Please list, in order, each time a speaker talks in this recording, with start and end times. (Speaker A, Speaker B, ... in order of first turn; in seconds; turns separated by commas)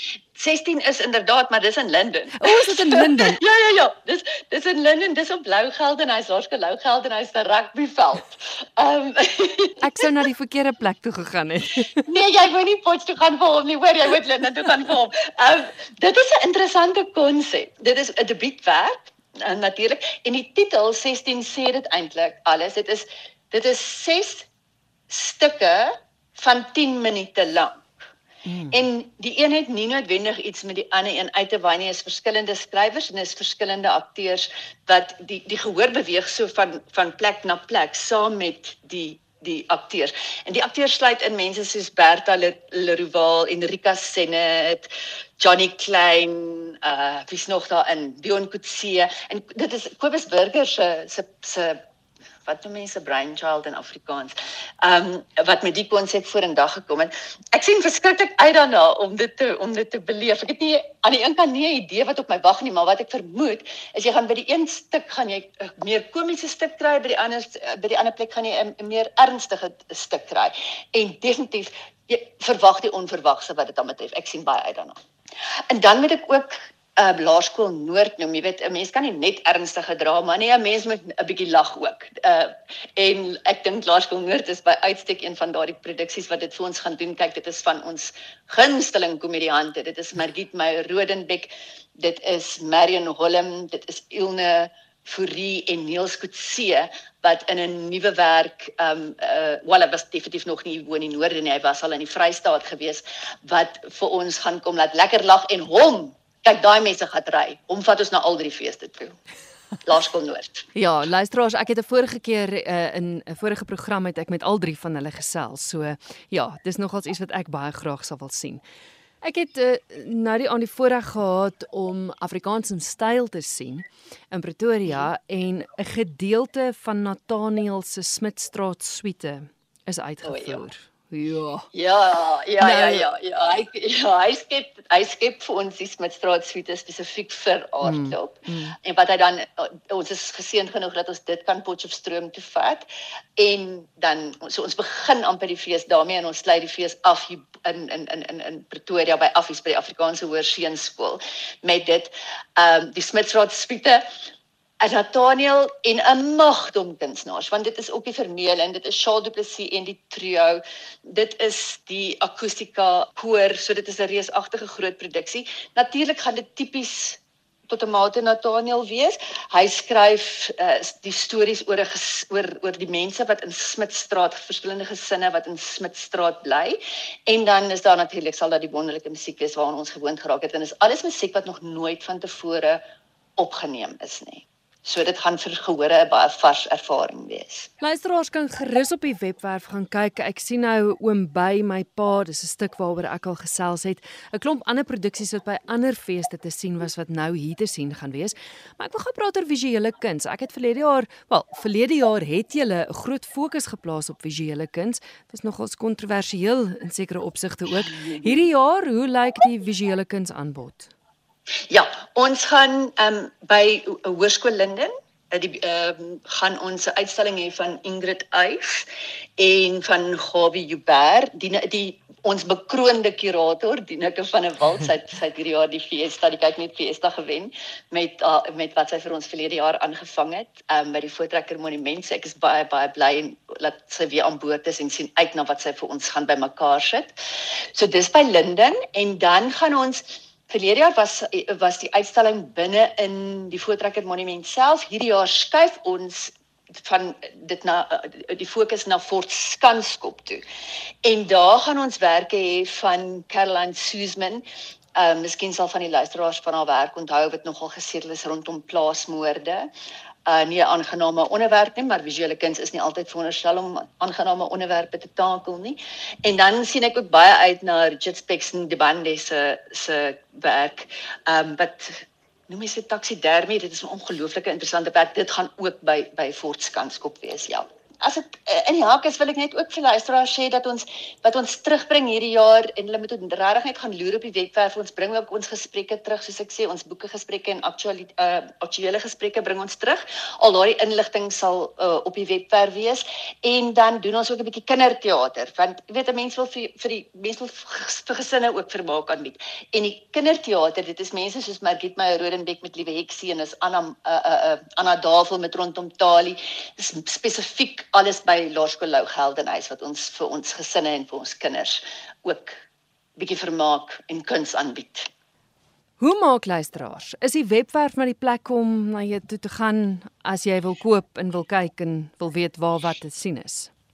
Speaker A: 0.3-9.8, Speaker B: 2.4-3.4, Speaker B: 9.8-12.0, Speaker A: 12.1-24.5, Speaker A: 25.1-27.9, Speaker B: 28.4-28.8, Speaker A: 28.7-51.8, Speaker A: 52.5-74.9, Speaker A: 75.7-109.2, Speaker A: 109.8-110.7, Speaker B: 110.7-118.6, Speaker B: 119.2-131.7, Speaker A: 130.2-130.6, Speaker A: 131.7-142.8, Speaker B: 132.6-133.1, Speaker B: 137.8-138.8, Speaker A: 143.4-154.0, Speaker A: 154.8-182.8, Speaker A: 183.4-187.7, Speaker B: 187.8-210.9, Speaker A: 211.7-237.2, Speaker A: 237.7-250.4, Speaker A: 251.0-254.4, Speaker A: 254.9-259.7, Speaker A: 260.2-312.6, Speaker A: 313.2-315.1, Speaker B: 316.0-323.7